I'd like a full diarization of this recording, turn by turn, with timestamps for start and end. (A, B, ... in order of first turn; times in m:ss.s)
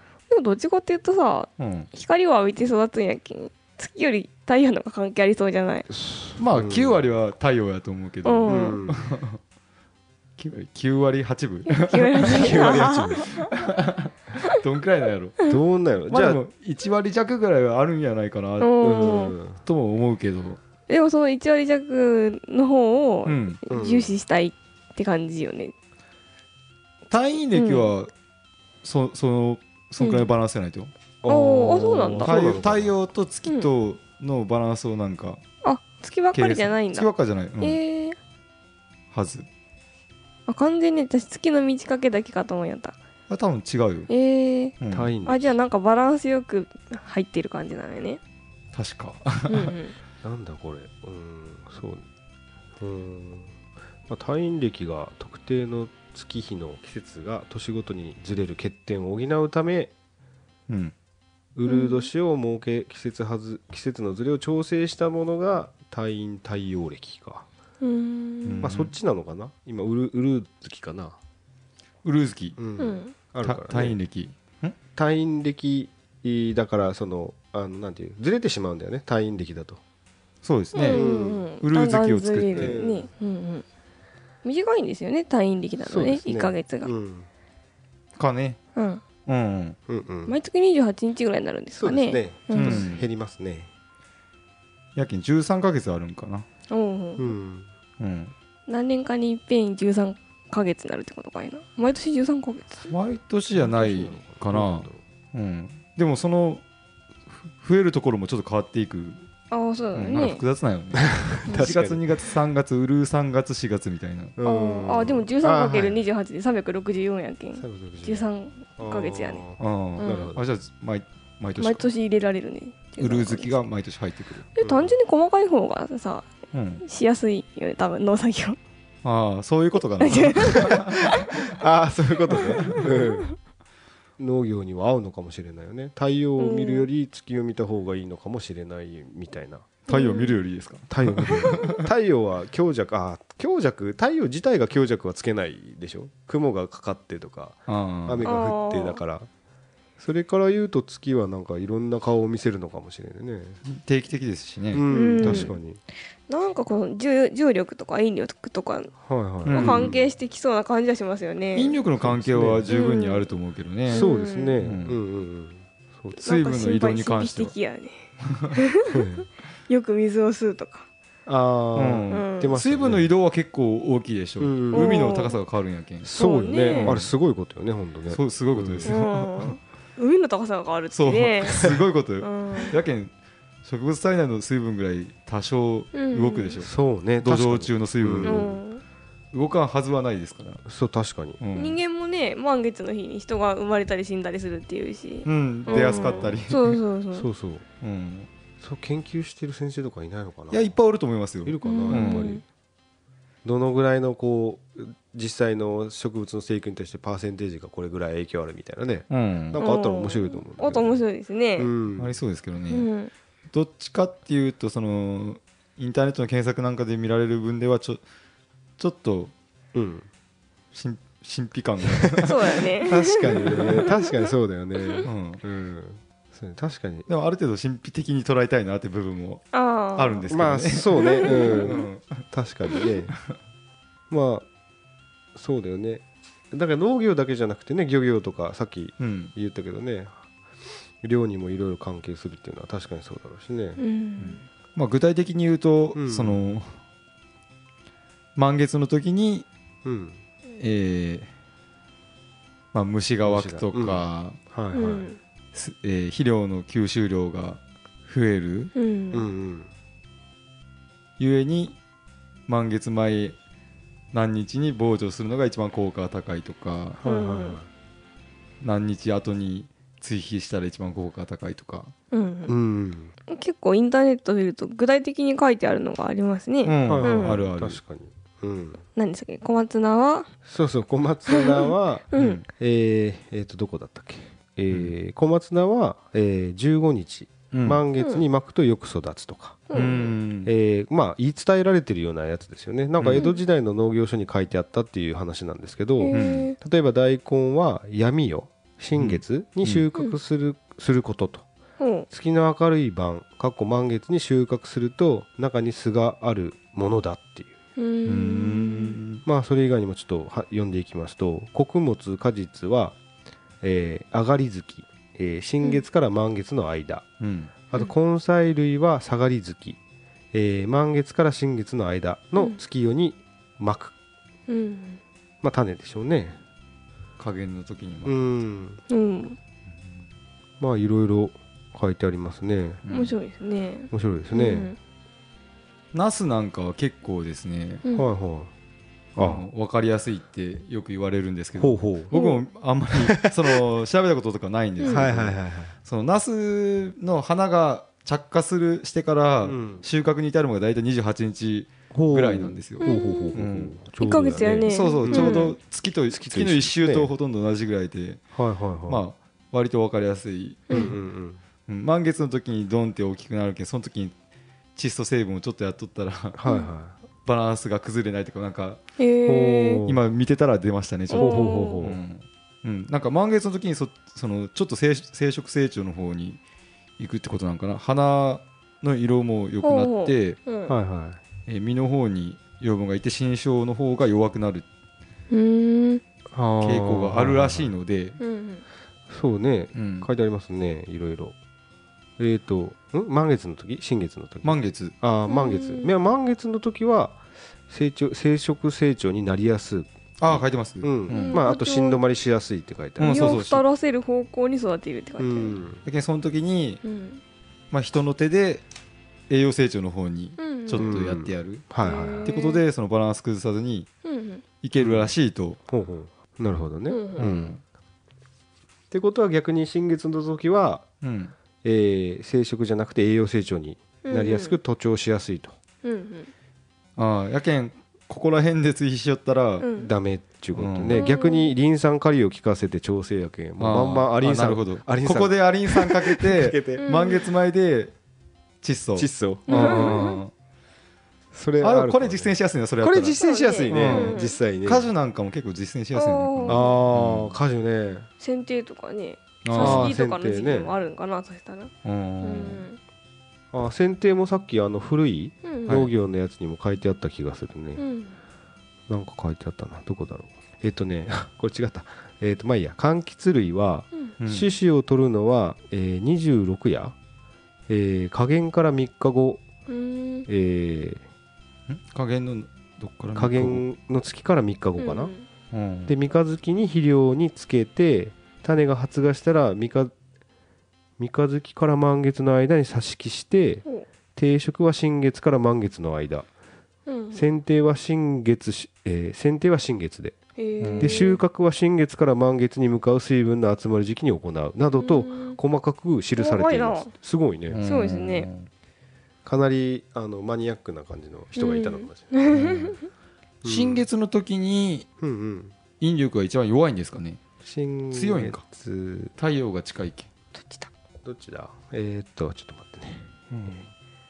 0:00.3-0:05.9 A
0:01.6-0:01.9 B
0:05.9-0:07.0 C
0:06.4-0:09.4 B
0:08.2-0:08.8 A
0:08.5-0:09.2 C
0:10.4-0:15.4 B
0:11.7-0:13.5 A
0:12.2-0:13.3 C
0:15.5-0:16.4 C
0:16.1-0:18.9 B
0:18.6-0:19.4 A
0:18.8-0:19.6 C
0:19.6-0:20.6 B
0:20.9-0:25.7 A
0:23.2-0:23.6 B
0:23.7-0:24.2 C
0:27.1-0:28.1 B
0:27.5-0:27.9 A
0:28.8-0:30.9 B
0:30.0-0:30.3 A
0:31.2-0:33.0 C
0:31.3-0:32.5 A
0:32.2-0:35.4 B
0:35.6-0:37.1 A
0:36.3-0:37.8 B
0:37.6-0:38.2 A
0:39.1-0:39.5 B
0:40.5-0:43.0 A
0:43.3-0:44.1 B
0:44.1-0:48.2 A
0:44.8-0:45.1 B
0:44.9-0:45.6 C
0:48.7-0:49.7 B
0:49.5-0:50.0 A
0:50.2-0:52.1 C
0:52.8-0:53.6 C
0:54.1-0:59.9 C
1:00.7-1:00.9 B
1:01.6-1:07.5 C
1:01.6-1:02.1 A
1:07.8-1:08.7 A
1:08.4-1:08.9 B
1:08.6-1:11.2 C
1:12.0-1:12.6 B
1:12.6-1:14.0 C
1:12.8-1:13.2 A
1:13.4-1:14.8 B
1:15.0-1:19.8 C
1:20.4-1:21.1 B
1:20.8-1:23.6 A
1:20.8-1:21.5 C
1:21.6-1:22.8 B
1:22.5-1:23.1 C
1:24.4-1:26.9 A
1:25.8-1:27.3 C
1:28.2-1:28.6 B
1:28.8-1:29.0 A
1:29.3-1:29.8 B
1:29.9-1:30.4 C
1:30.3-1:32.9 A
1:31.8-1:33.7 C
1:32.5-1:33.0 B
1:35.0-1:36.5 B
1:36.7-1:37.3 A
1:37.2-1:37.7 C
1:38.0-1:38.3 B
1:38.7-1:42.9 A
1:42.9-1:46.6 B
1:43.6-1:45.0 C
1:47.3-1:49.3 B
1:49.5-1:50.4 A
1:49.9-1:54.4 B
1:51.0-1:52.2 C
1:51.5-1:51.7 A
1:54.4-1:56.0 C
1:54.4-1:59.4 A
1:57.6-1:58.3 C
1:58.8-2:00.4 C
1:59.6-2:01.9 B
2:00.0-2:00.4 A
2:01.6-2:03.6 A
2:03.0-2:04.5 B
2:04.6-2:06.3 A
2:04.6-2:05.0 C
2:06.5-2:06.8 B
2:06.8-2:08.6 A
2:09.0-2:11.2 B
2:10.0-2:11.3 A
2:11.3-2:13.3 C
2:12.4-2:13.2 A
2:14.2-2:19.8 C
2:16.4-2:16.9 A
2:19.9-2:21.9 B
2:19.9-2:20.4 A
2:20.9-2:29.3 C
2:21.2-2:21.8 A
2:27.7-2:28.3 B
2:28.2-2:29.0 A
2:30.0-2:33.6 C
2:33.6-2:35.5 B
2:34.7-2:35.8 C
2:34.9-2:35.6 A
2:36.3-2:39.0 A
2:39.0-2:40.1 C
2:39.5-2:39.9 B
2:39.5-2:41.8 A
2:41.5-2:44.1 B
2:42.0-2:42.7 C
2:42.7-2:43.3 A
2:43.9-2:44.6 A
2:43.9-2:46.2 C
2:44.6-2:45.0 B
2:46.2-2:47.5 B
2:46.2-2:48.0 A
2:48.3-2:48.6 B
2:48.6-2:49.1 A
2:48.9-2:49.3 C
2:49.7-2:50.9 A
2:51.3-2:53.1 C
2:51.8-2:57.1 B
2:52.1-2:52.5 A
2:54.4-2:55.3 C
2:54.7-2:55.4 A
2:56.0-2:59.0 C
2:56.1-2:57.0 A
2:58.1-2:59.6 B
2:58.9-3:02.7 A
3:00.9-3:03.1 B
3:03.6-3:06.7 B
3:06.0-3:06.6 A
3:06.6-3:08.6 C
3:07.2-3:08.6 B
3:08.2-3:08.8 A
3:09.3-3:10.6 B
3:10.7-3:11.4 C
3:11.4-3:11.8 B
3:11.6-3:17.3 A
3:15.2-3:16.8 B
3:15.7-3:16.4 C
3:17.1-3:17.6 C
3:17.8-3:18.3 B
3:18.6-3:20.7 C
3:20.5-3:22.3 B
3:21.4-3:22.4 C
3:21.6-3:22.4 A
3:23.4-3:31.0 C
3:29.1-3:29.6 B
3:29.6-3:31.7 A
3:31.6-3:32.2 C
3:32.0-3:32.9 B
3:32.7-3:33.1 A
3:33.5-3:38.0 B
3:38.8-3:39.3 B
3:39.7-3:40.1 C
3:40.7-3:42.6 B
3:41.8-3:47.1 C
3:42.2-3:45.1 A
3:45.0-3:45.4 B
3:47.1-3:52.2 B
3:49.5-3:50.2 A
3:50.3-3:53.2 C
3:50.9-3:51.9 A
3:54.1-3:54.5 C
3:55.4-4:00.3 C
3:59.0-3:59.3 B
4:01.0-4:03.8 C
4:03.8-4:04.4 A
4:04.2-4:06.8 B
4:06.0-4:06.4 C
4:08.4-4:09.5 B
4:09.8-4:10.2 C
4:10.6-4:11.3 B
4:12.7-4:14.4 B
4:13.2-4:15.1 C
4:14.7-4:15.2 A
4:15.5-4:18.7 B
4:18.8-4:19.2 A
4:19.1-4:19.7 C
4:21.2-4:21.8 B
4:22.5-4:23.4 B
4:24.1-4:27.0 B
4:27.0-4:27.7 C
4:27.0-4:27.6 A
4:28.6-4:31.9 B
4:32.1-4:32.6 A
4:32.5-4:33.1 C
4:33.3-4:37.4 A
4:36.6-4:37.8 B
4:36.8-4:38.8 C
4:39.0-4:40.3 A
4:40.5-5:01.5 C
4:41.3-4:42.4 A
4:42.1-4:42.4 B
4:47.5-4:47.8 B
4:48.0-4:48.2 A
4:49.7-4:50.1 A
4:49.7-4:50.5 B
4:53.0-4:53.2 B
4:53.1-4:53.4 A
4:56.0-4:56.6 A
4:56.1-4:56.5 B
4:59.0-4:59.8 B
5:01.8-5:02.1 A
5:02.1-5:07.6 C
5:07.8-5:09.0 A
5:08.1-5:09.2 B
5:09.2-5:13.0 C
5:13.6-5:17.1 C
5:17.2-5:17.5 B
5:17.7-5:19.8 C
5:20.3-5:23.9 C
5:24.5-5:25.0 A
5:25.4-5:26.4 C
5:27.2-5:28.2 B
5:28.0-5:28.8 C
5:28.9-5:29.4 A
5:30.6-5:32.8 C
5:32.8-5:33.2 B
5:32.9-5:34.8 A
5:33.9-5:34.7 C
5:35.9-5:37.8 B
5:37.8-5:38.1 A
5:37.9-5:38.5 C
5:39.2-5:39.5 C
5:39.2-5:53.8 B
5:41.6-5:42.1 C
5:42.1-5:42.4 A
5:43.0-5:43.6 C
5:44.9-5:45.7 C
5:49.4-5:49.8 C
5:51.9-5:55.5 C
5:52.8-5:53.4 A
5:54.0-5:55.6 A
5:54.7-5:58.2 B
5:56.1-5:57.1 C
5:58.4-5:59.0 C
5:58.9-6:00.9 B
6:00.7-6:01.0 A
6:00.7-6:01.4 C
6:01.7-6:04.2 B
6:04.8-6:06.4 B
6:06.4-6:07.0 C
6:06.4-6:06.7 A
6:07.2-6:08.8 B
6:09.0-6:09.8 A
6:09.2-6:10.0 C
6:09.9-6:16.4 B
6:11.1-6:11.9 A
6:11.1-6:12.0 C
6:17.0-6:20.4 B
6:19.6-6:20.8 A
6:20.7-6:21.2 C
6:21.5-6:24.7 B
6:25.3-6:26.0 A
6:26.3-6:27.7 C
6:26.6-6:28.2 B
6:28.2-6:28.6 A
6:29.1-6:31.4 C
6:29.7-6:30.1 B
6:32.2-6:43.5 C
6:34.4-6:34.9 B
6:35.3-6:35.9 A
6:40.2-6:41.4 B
6:41.1-6:42.0 A
6:43.0-6:43.6 B
6:43.0-6:45.6 A
6:45.2-6:45.8 C
6:45.8-6:46.8 B
6:46.8-6:47.2 A
6:47.7-6:48.6 B
6:49.3-6:51.6 B
6:50.4-6:51.0 A
6:50.8-6:52.3 C
6:51.8-6:52.6 A
6:52.2-6:53.9 B
6:54.0-6:54.4 A
6:54.6-6:55.6 B
6:54.8-6:55.2 C
6:55.7-6:57.6 C
6:56.9-6:57.3 A
6:57.2-6:57.6 B
6:58.9-7:00.9 C
7:01.0-7:01.3 B
7:01.6-7:05.6 C
7:04.0-7:04.6 A
7:05.8-7:06.3 A
7:07.0-7:09.7 B
7:09.6-7:09.9 A
7:09.7-7:16.8 C
7:10.6-7:11.0 B
7:10.9-7:11.5 A
7:13.6-7:17.9 B
7:16.8-7:17.3 A
7:18.6-7:20.3 B
7:19.0-7:20.0 C
7:19.5-7:20.2 A
7:21.3-7:24.9 C
7:21.6-7:27.4 B
7:23.2-7:24.4 A
7:25.9-7:26.8 A
7:26.5-7:28.1 C
7:28.2-7:32.8 A
7:29.4-7:30.0 B
7:29.5-7:30.8 C
7:31.8-7:32.7 B
7:33.5-7:37.8 C
7:35.4-7:35.8 A
7:35.7-7:35.9 B
7:37.8-7:38.2 A
7:38.9-7:47.0 C
7:44.2-7:44.5 B
7:47.7-7:49.5 C
7:49.7-7:50.3 A
7:50.3-7:51.0 C
7:51.7-7:53.6 B
7:53.2-7:55.1 C
7:54.8-7:55.3 A
7:55.5-7:55.9 B
7:55.9-7:59.9 C
8:01.0-8:03.6 C
8:04.2-8:06.3 C
8:06.9-8:07.2 A
8:07.1-8:10.2 C
8:10.4-8:11.2 A
8:10.6-8:11.0 B
8:10.8-8:17.6 C
8:14.8-8:15.4 A
8:16.2-8:16.9 A
8:17.5-8:18.5 B
8:17.6-8:18.3 A
8:19.2-8:22.1 C
8:21.4-8:22.8 A
8:22.3-8:22.8 B
8:23.4-8:23.8 C
8:23.4-8:24.9 B
8:25.0-8:25.6 C
8:25.8-8:27.2 B
8:27.4-8:29.1 C
8:27.9-8:28.4 B
8:29.2-8:30.1 B
8:30.4-8:30.7 A
8:31.0-8:33.1 C
8:33.3-8:33.6 B